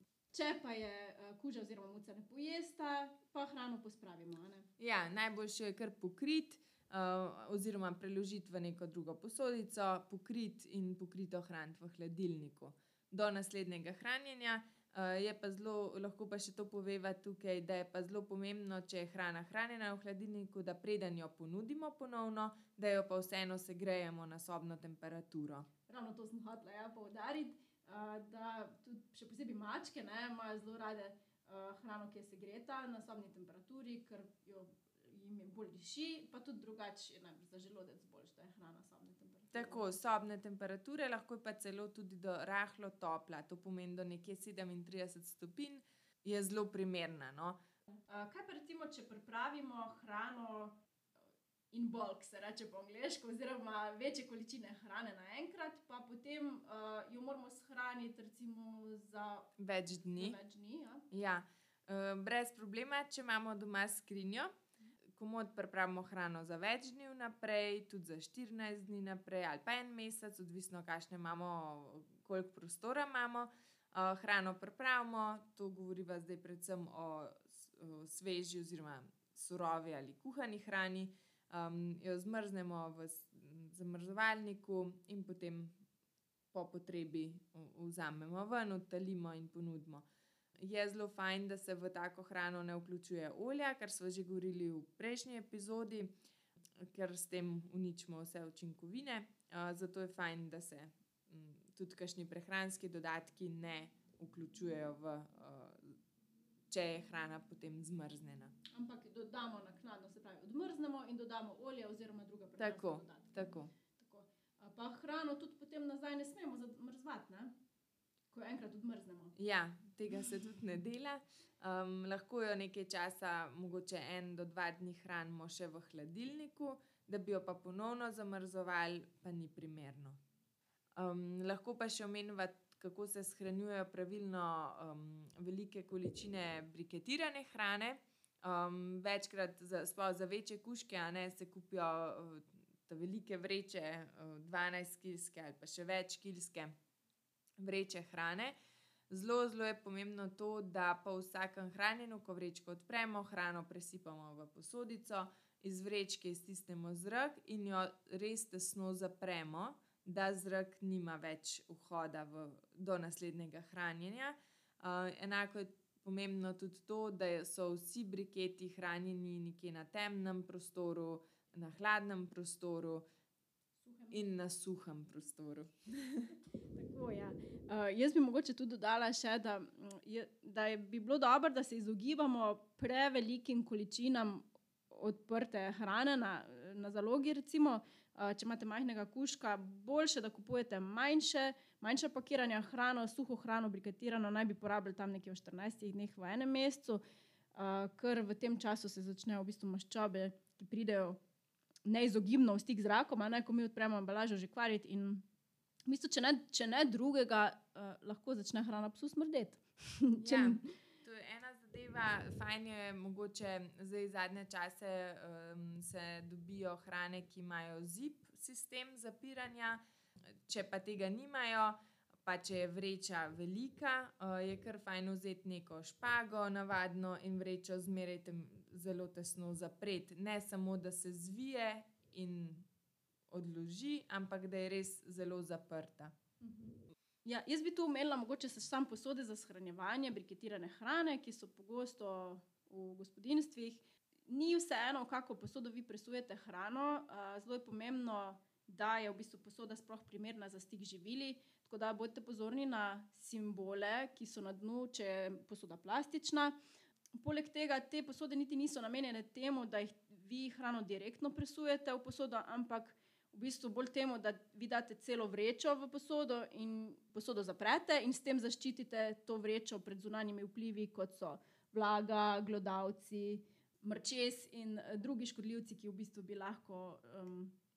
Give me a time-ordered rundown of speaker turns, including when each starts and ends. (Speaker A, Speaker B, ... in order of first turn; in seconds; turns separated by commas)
Speaker A: 0.3-4.7, Speaker B: 4.8-25.7, Speaker A: 25.9-39.9, Speaker B: 39.5-47.6, Speaker A: 48.1-50.8, Speaker A: 51.7-59.5, Speaker B: 59.6-60.4, Speaker A: 60.1-61.0, Speaker B: 61.1-64.5, Speaker B: 65.2-85.8, Speaker B: 86.5-90.1, Speaker B: 90.6-96.2, Speaker B: 96.8-106.0, Speaker B: 106.7-108.5, Speaker A: 108.7-117.5, Speaker B: 112.6-113.7, Speaker A: 118.3-119.3, Speaker B: 119.4-130.2, Speaker B: 131.0-146.7, Speaker B: 147.6-148.6, Speaker B: 149.1-173.1, Speaker A: 173.8-174.2, Speaker B: 174.1-176.3, Speaker A: 176.7-197.0, Speaker A: 197.6-201.2, Speaker A: 201.9-205.2, Speaker A: 205.9-210.7, Speaker B: 210.2-219.8, Speaker B: 220.3-232.7, Speaker B: 233.3-236.1, Speaker A: 236.4-256.6, Speaker A: 257.2-277.5